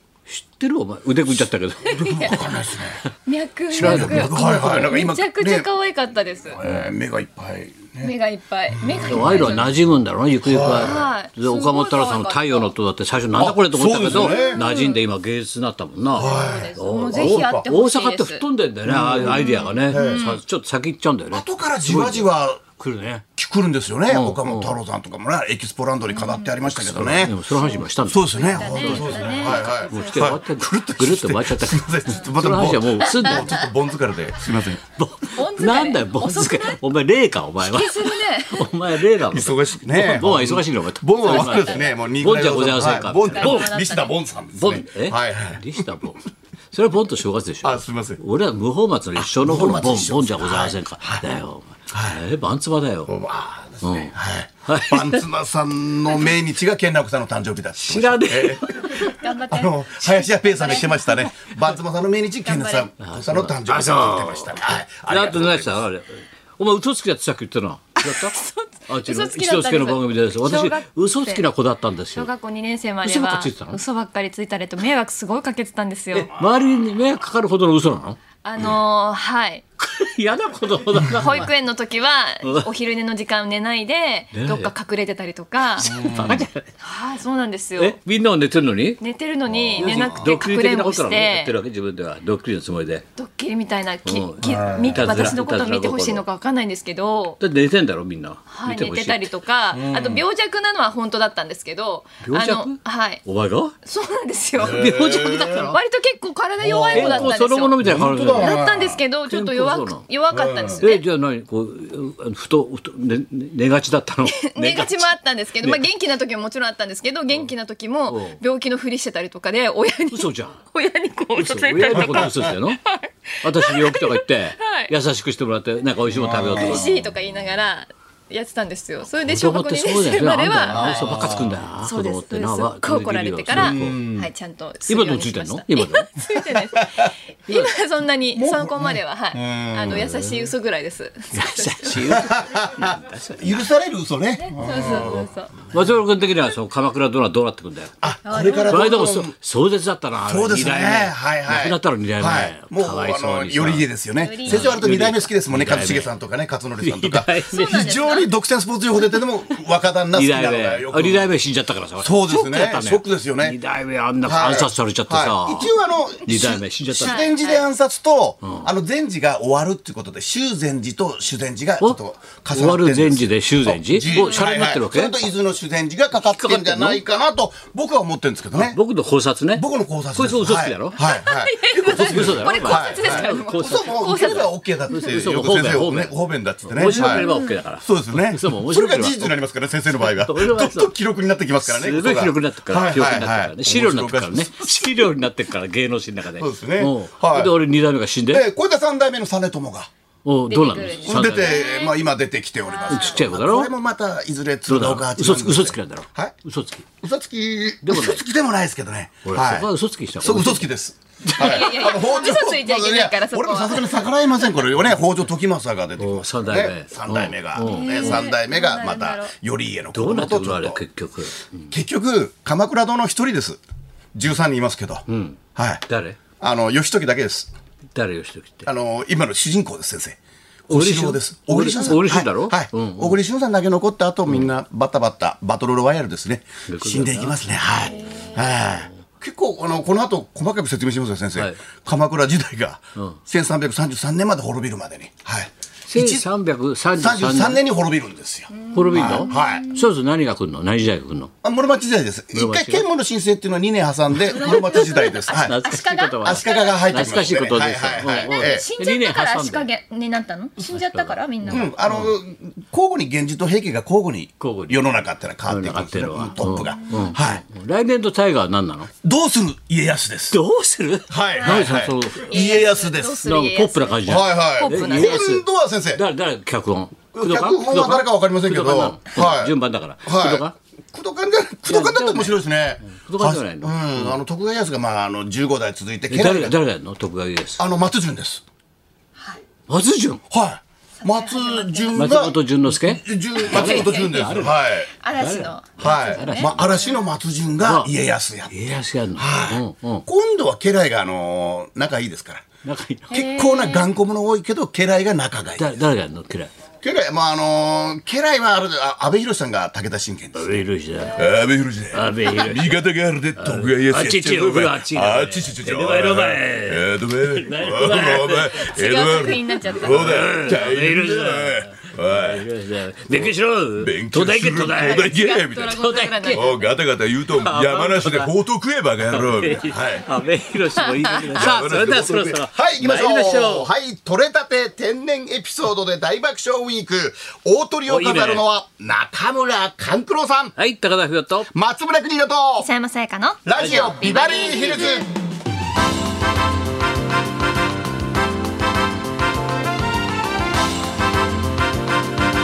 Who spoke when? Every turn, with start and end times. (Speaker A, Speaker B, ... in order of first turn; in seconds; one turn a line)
Speaker A: 0.3-2.4
Speaker B: 1.8-2.5
Speaker C: 2.0-3.0
Speaker B: 3.2-6.6
Speaker C: 3.7-5.7
Speaker A: 3.7-4.7
Speaker C: 6.5-8.1
Speaker A: 6.6-6.9
Speaker B: 8.0-9.8
Speaker C: 8.7-9.7
Speaker A: 9.1-23.2
Speaker C: 10.4-11.1
Speaker B: 10.6-12.7
Speaker C: 13.3-14.6
Speaker B: 14.1-15.0
Speaker B: 16.1-18.4
Speaker C: 16.1-17.6
Speaker C: 18.9-20.3
Speaker B: 19.1-20.4
Speaker C: 21.3-22.6
Speaker C: 23.4-27.4
Speaker A: 24.1-24.8
Speaker B: 26.1-26.5
Speaker A: 26.6-33.5
Speaker B: 27.6-30.4
Speaker C: 28.0-34.8
Speaker B: 33.2-33.6
Speaker A: 35.0-43.7
Speaker B: 35.3-36.8
Speaker B: 37.6-38.7
Speaker C: 39.3-45.9
Speaker B: 41.2-41.9
Speaker B: 43.2-44.1
Speaker A: 44.5-53.1
Speaker C: 47.6-48.2
Speaker C: 49.4-51.2
Speaker C: 51.9-52.2
Speaker C: 53.1-65.8
Speaker A: 53.8-54.1
Speaker A: 54.6-55.2
Speaker A: 57.8-59.1
Speaker B: 59.0-61.6
Speaker B: 62.4-62.9
Speaker A: 63.0-68.3
Speaker B: 68.0-71.5
Speaker A: 68.9-72.3
Speaker B: 72.1-76.3
Speaker A: 73.0-73.8
Speaker A: 76.1-78.2
Speaker B: 78.4-79.6
Speaker A: 79.8-81.5
Speaker B: 81.0-86.2
Speaker A: 82.4-82.7
Speaker A: 84.3-84.7
Speaker C: 85.8-86.4
Speaker A: 85.8-86.7
Speaker B: 86.8-88.0
Speaker A: 87.8-89.0
Speaker B: 89.0-91.5
Speaker C: 89.5-90.3
Speaker A: 89.8-93.0
Speaker B: 93.2-97.4
Speaker A: 94.0-96.2
Speaker C: 94.4-95.3
Speaker A: 97.4-99.3
Speaker B: 98.5-103.2
Speaker C: 99.7-100.2
Speaker A: 102.2-103.7
Speaker B: 103.8-111.0
Speaker C: 104.6-105.7
Speaker A: 104.7-105.8
Speaker C: 106.6-107.3
Speaker A: 106.9-108.6
Speaker C: 107.8-109.0
Speaker A: 109.2-110.0
Speaker C: 110.3-110.8
Speaker A: 110.8-115.1
Speaker B: 114.3-124.9
Speaker A: 115.6-115.8
Speaker A: 118.1-118.4
Speaker A: 120.1-120.5
Speaker A: 121.3-122.8
Speaker C: 121.9-122.5
Speaker A: 123.4-127.0
Speaker C: 126.1-126.9
Speaker B: 126.5-142.1
Speaker A: 129.2-134.1
Speaker C: 130.7-131.6
Speaker C: 133.5-134.2
Speaker A: 134.9-136.1
Speaker C: 136.4-137.1
Speaker C: 138.3-140.2
Speaker A: 139.9-140.5
Speaker A: 141.3-143.7
Speaker C: 141.9-145.3
Speaker B: 144.4-145.5
Speaker A: 144.7-145.2
Speaker A: 145.7-147.9
Speaker C: 148.0-149.3
Speaker B: 148.2-148.9
Speaker A: 148.7-153.9
Speaker C: 150.2-161.3
Speaker B: 154.2-154.8
Speaker A: 154.4-156.1
Speaker A: 156.8-157.9
Speaker B: 157.5-158.3
Speaker A: 160.1-165.7
Speaker C: 162.0-163.6
Speaker C: 164.2-178.8
Speaker A: 166.2-167.3
Speaker B: 167.0-167.7
Speaker A: 168.4-168.7
Speaker A: 172.5-175.3
Speaker B: 174.1-174.4
Speaker A: 176.1-177.0
Speaker A: 178.5-181.0
Speaker C: 179.5-195.1
Speaker B: 180.9-185.2
Speaker A: 181.8-183.9
Speaker A: 184.9-186.1
Speaker A: 186.7-189.3
Speaker B: 186.8-187.5
Speaker A: 190.0-190.9
Speaker A: 191.6-198.4
Speaker C: 196.3-197.6
Speaker C: 198.2-199.9
Speaker A: 200.2-201.6
Speaker B: 200.5-202.0
Speaker C: 201.1-206.3
Speaker B: 202.6-203.2
Speaker A: 202.8-203.7
Speaker A: 204.7-206.8
Speaker C: 207.0-209.7
Speaker A: 207.8-208.2
Speaker A: 209.2-210.7
Speaker C: 210.2-220.8
Speaker A: 211.2-211.7
Speaker B: 211.3-214.6
Speaker A: 216.0-218.3
Speaker B: 217.6-219.3
Speaker A: 219.9-221.7
Speaker C: 221.7-223.6
Speaker C: 224.1-225.8
Speaker A: 225.1-226.2
Speaker C: 226.4-227.5
Speaker A: 227.9-228.7
Speaker C: 228.6-246.3
Speaker A: 230.7-233.2
Speaker A: 236.7-237.3
Speaker B: 237.9-238.4
Speaker A: 245.9-247.6
Speaker C: 246.9-249.7
Speaker B: 248.5-249.9
Speaker A: 248.7-251.3
Speaker C: 251.4-255.6
Speaker A: 252.3-252.8
Speaker B: 254.3-257.3
Speaker A: 255.3-259.7
Speaker C: 256.2-258.6
Speaker B: 258.1-261.7
Speaker A: 260.6-262.1
Speaker C: 261.5-267.4
Speaker A: 264.4-264.8
Speaker A: 265.4-268.9
Speaker B: 266.4-267.1
Speaker C: 269.0-270.4
Speaker A: 270.3-272.6
Speaker C: 271.1-273.2
Speaker B: 271.3-271.7
Speaker B: 272.2-275.2
Speaker A: 273.2-280.6
Speaker C: 274.0-276.0
Speaker C: 277.1-286.5
Speaker A: 281.7-284.2
Speaker A: 286.1-287.6
Speaker C: 287.6-288.4
Speaker A: 289.7-290.2
Speaker C: 290.3-294.9
Speaker B: 291.0-292.2
Speaker A: 291.9-294.6
Speaker B: 293.4-294.4
Speaker B: 295.0-297.1
Speaker A: 295.2-296.7
Speaker C: 295.8-302.4
Speaker A: 297.6-297.9
Speaker A: 298.5-300.0
Speaker A: 302.6-303.2
Speaker B: 303.1-303.9
Speaker C: 303.1-305.8
Speaker A: 305.6-306.5
Speaker C: 306.8-310.5
Speaker A: 310.3-311.3
Speaker C: 311.1-322.5
Speaker A: 311.9-312.8
Speaker A: 313.4-318.8
Speaker B: 318.2-320.4
Speaker A: 319.8-326.7
Speaker C: 323.1-325.8
Speaker B: 324.7-326.6
Speaker C: 326.3-330.0
Speaker A: 327.2-328.3
Speaker A: 329.0-333.7
Speaker B: 331.3-331.6
Speaker C: 331.3-340.5
Speaker A: 337.9-338.4
Speaker A: 340.6-341.5
Speaker C: 341.5-342.7
Speaker B: 342.6-345.1
Speaker C: 343.4-345.1
Speaker A: 343.6-343.9